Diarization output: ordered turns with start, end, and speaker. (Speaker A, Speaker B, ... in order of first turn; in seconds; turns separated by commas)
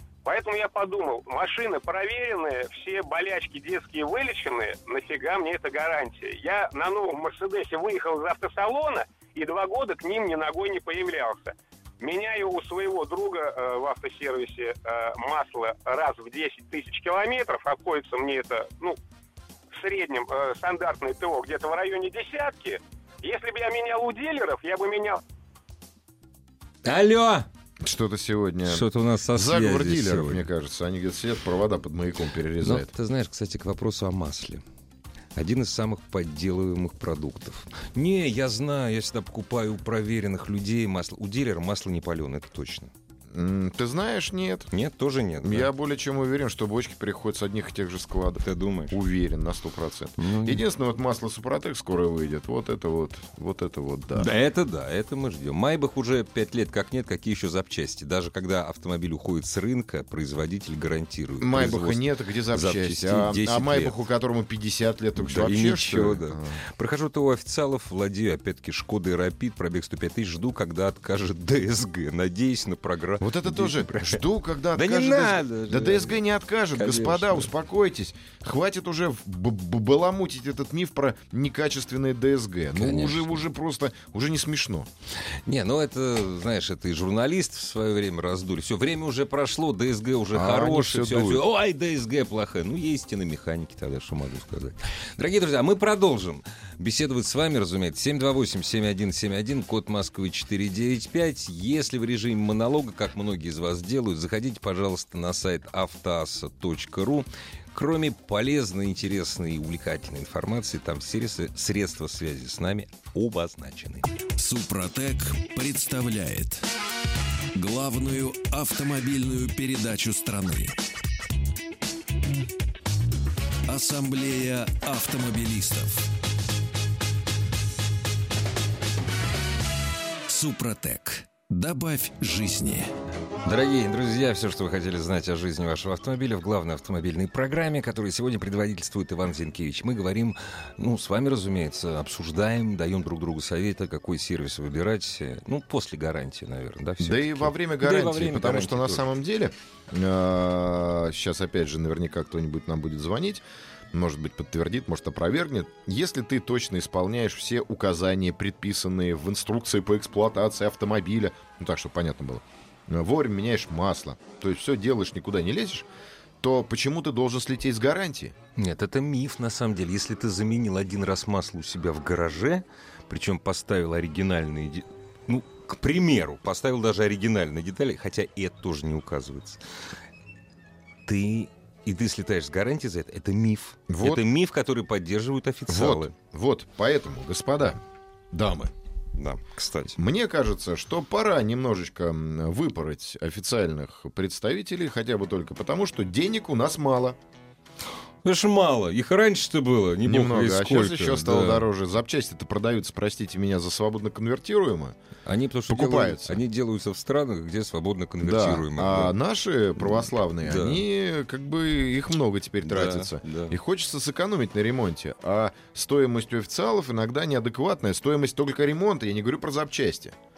Speaker A: 0.2-19.0, Speaker A: 19.7-25.2, Speaker B: 26.8-27.5, Speaker C: 27.8-32.9, Speaker B: 28.6-30.5, Speaker B: 32.6-34.6, Speaker B: 35.4-42.9, Speaker C: 43.3-44.7, Speaker B: 44.7-45.7, Speaker C: 45.4-54.3, Speaker B: 48.4-49.0, Speaker B: 50.2-50.6, Speaker B: 54.1-64.0, Speaker C: 61.4-66.6, Speaker B: 65.2-74.2, Speaker C: 73.2-84.9, Speaker B: 74.7-76.2, Speaker B: 76.8-77.5, Speaker B: 82.8-83.4, Speaker B: 85.5-114.1, Speaker C: 90.3-91.4, Speaker D: 114.4-116.7, Speaker D: 117.5-120.8, Speaker D: 123.7-126.1, Speaker D: 130.3-132.9, Speaker B: 133.4-149.1, Speaker C: 147.0-165.9, Speaker C: 166.4-168.3, Speaker B: 168.6-179.6, Speaker B: 181.1-186.1, Speaker C: 183.9-184.2, Speaker C: 185.7-187.8, Speaker C: 188.3-188.7, Speaker B: 189.2-190.0, Speaker C: 190.0-197.2, Speaker B: 198.2-201.7, Speaker C: 200.1-205.0, Speaker B: 205.3-209.1, Speaker C: 205.7-206.4, Speaker C: 208.2-220.2, Speaker B: 209.8-210.8, Speaker B: 212.6-213.6